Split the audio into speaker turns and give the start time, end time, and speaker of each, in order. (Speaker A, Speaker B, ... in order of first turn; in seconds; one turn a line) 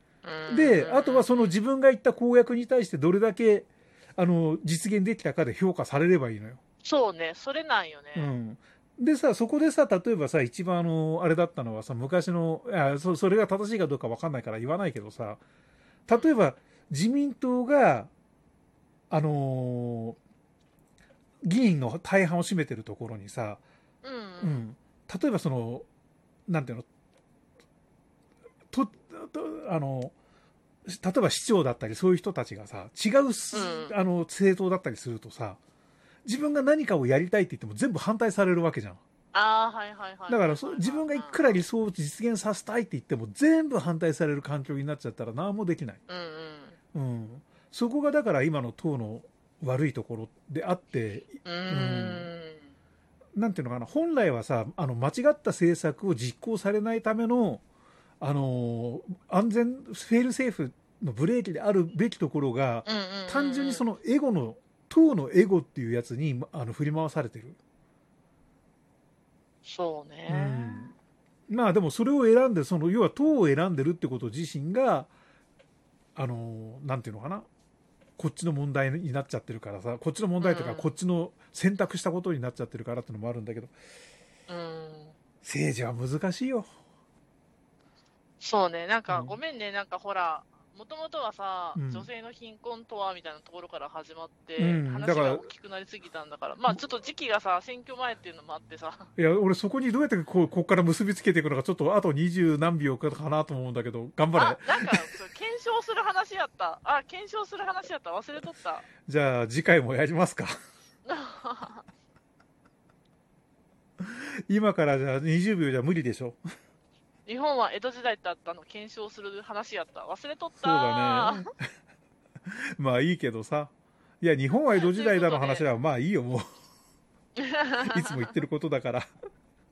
Speaker A: 0.2-1.6
Speaker B: 0.5-6.6
Speaker A: 6.8-8.3
Speaker B: 8.2-15.4
Speaker B: 16.1-18.1
Speaker B: 19.1-20.2
Speaker B: 21.5-23.6
Speaker A: 24.0-24.6
Speaker B: 24.4-25.9
Speaker B: 26.5-26.9
Speaker B: 28.7-30.1
Speaker B: 30.9-35.6
Speaker A: 33.5-34.0
Speaker B: 36.3-39.0
Speaker A: 39.3-41.6
Speaker B: 40.3-46.0
Speaker A: 46.1-46.8
Speaker B: 46.9-52.3
Speaker A: 51.5-52.7
Speaker B: 53.4-57.6
Speaker B: 58.2-67.6
Speaker A: 62.9-63.8
Speaker A: 69.6-70.9
Speaker B: 70.3-71.0
Speaker B: 71.5-75.1
Speaker B: 76.2-77.5
Speaker B: 78.2-83.7
Speaker A: 80.4-80.9
Speaker A: 84.5-85.2
Speaker B: 85.4-86.7
Speaker A: 88.4-99.1
Speaker B: 89.1-89.4
Speaker B: 91.8-92.1
Speaker B: 94.6-95.5
Speaker B: 99.2-105.1
Speaker A: 104.4-108.9
Speaker B: 109.1-110.5
Speaker A: 111.0-111.8
Speaker B: 114.0-116.4
Speaker A: 117.3-121.5
Speaker B: 120.6-121.5
Speaker B: 122.5-126.4
Speaker A: 124.7-125.7
Speaker A: 127.4-128.3
Speaker B: 127.8-129.1